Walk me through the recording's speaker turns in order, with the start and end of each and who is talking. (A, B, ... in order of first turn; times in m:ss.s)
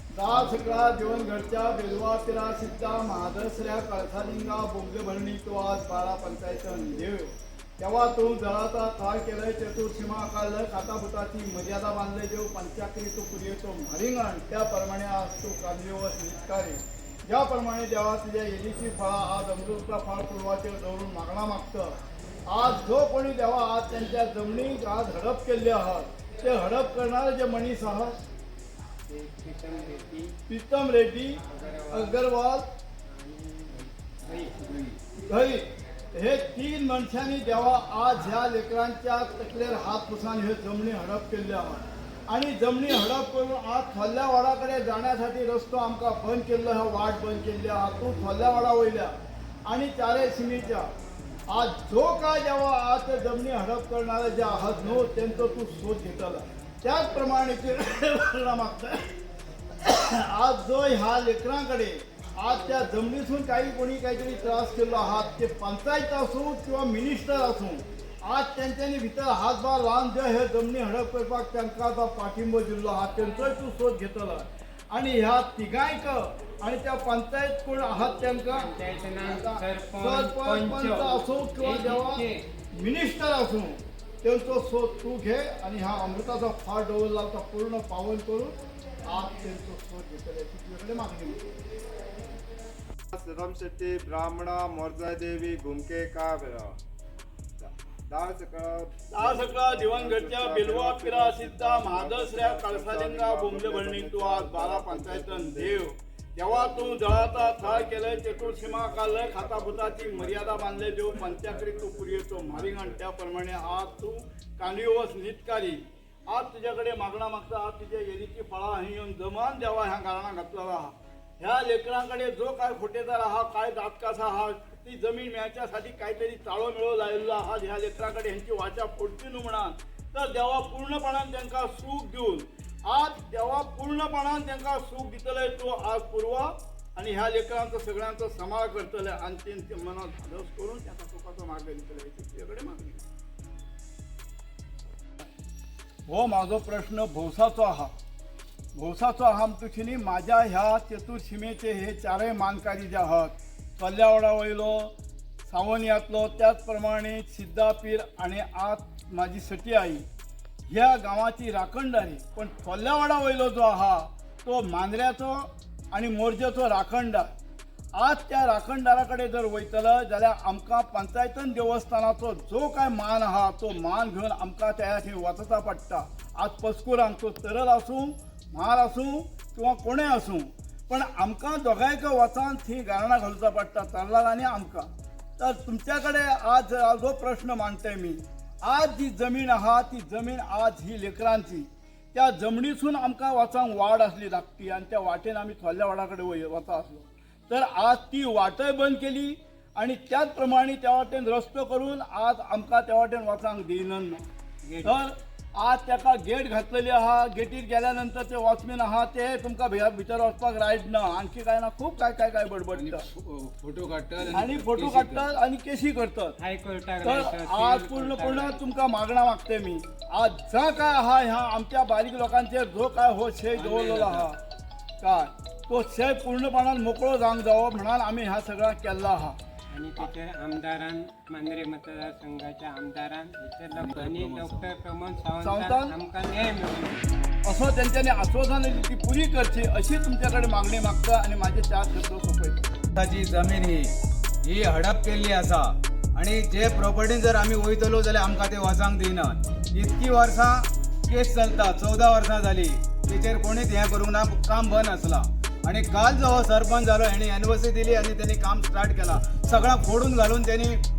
0:00.1-0:21.9 A
0:22.5-0:28.2 A
0:29.1-0:30.3 B
0:30.5-0:31.4 A
0:31.5-0:32.2 B
0:31.9-0:32.7 A
0:33.1-0:35.0 B
0:35.3-0:50.9 A
0:51.5-0:59.1 A
0:59.8-1:18.7 A
1:18.5-1:22.4 B
1:19.2-1:28.6 A
1:29.1-1:31.5 A
1:33.1-1:36.8 C
1:37.6-1:45.9 C
1:39.1-2:23.0 A
1:46.4-1:53.0 C
2:26.1-2:27.9 A
2:28.7-2:34.9 A
2:35.4-2:40.0 A
2:40.7-2:47.3 A
2:48.0-3:24.2 A
3:24.7-3:25.0 B
3:24.8-3:33.0 A
3:32.7-3:35.3 D
3:34.3-3:36.3 A
3:36.4-3:38.6 B
3:37.0-3:44.4 A
3:43.7-3:44.2 D
3:45.0-3:49.4 A
3:49.7-3:57.1 B
3:53.7-3:54.7 D
3:55.4-3:55.9 A
3:57.4-4:02.6 A
4:02.9-4:20.8 E